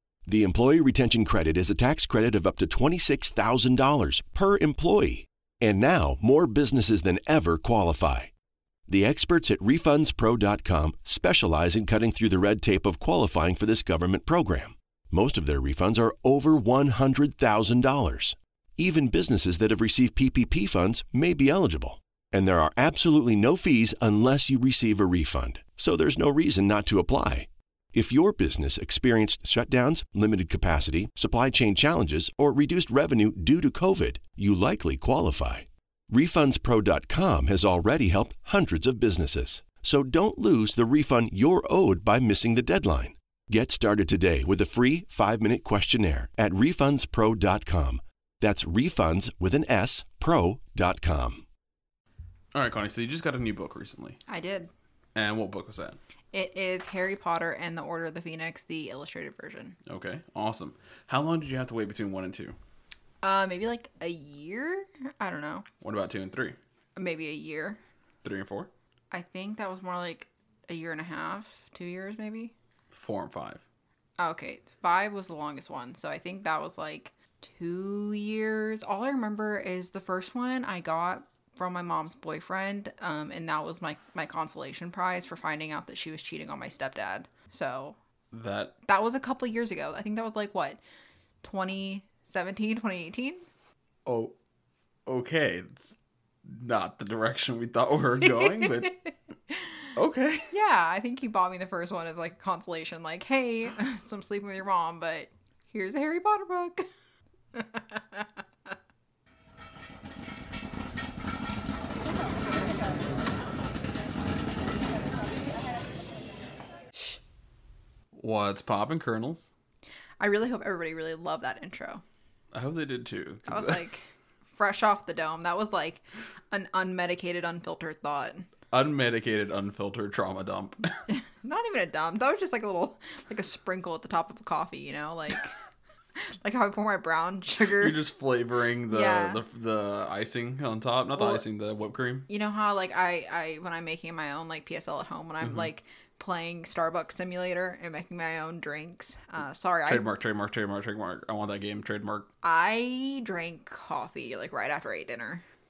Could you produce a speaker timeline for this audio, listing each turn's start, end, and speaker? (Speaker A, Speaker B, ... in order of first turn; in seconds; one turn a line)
Speaker A: 0.3-8.3
Speaker A: 8.9-51.5
Speaker B: 52.5-54.2
Speaker C: 54.3-54.7
Speaker B: 55.1-56.0
Speaker C: 56.3-59.8
Speaker B: 59.9-62.6
Speaker C: 63.2-65.7
Speaker B: 65.8-66.6
Speaker C: 67.0-67.8
Speaker B: 68.2-68.7
Speaker C: 69.1-72.5
Speaker B: 72.9-73.6
Speaker C: 74.2-88.0
Speaker B: 88.3-88.7
Speaker C: 88.9-90.8
Speaker C: 91.4-93.4
Speaker B: 94.1-94.3
Speaker B: 95.1-98.9
Speaker C: 98.2-99.9
Speaker B: 100.0-100.5
Speaker C: 100.5-106.9
Speaker C: 107.5-108.3
Speaker B: 118.2-119.5
Speaker C: 120.2-122.0
Speaker B: 122.5-123.8
Speaker C: 123.5-128.5
Speaker B: 128.7-131.0
Speaker C: 131.1-135.5
Speaker C: 136.4-138.0
Speaker B: 137.8-142.3
Speaker C: 138.9-139.4
Speaker C: 141.2-141.4
Speaker C: 142.3-150.0
Speaker B: 149.9-152.3
Speaker C: 152.4-155.4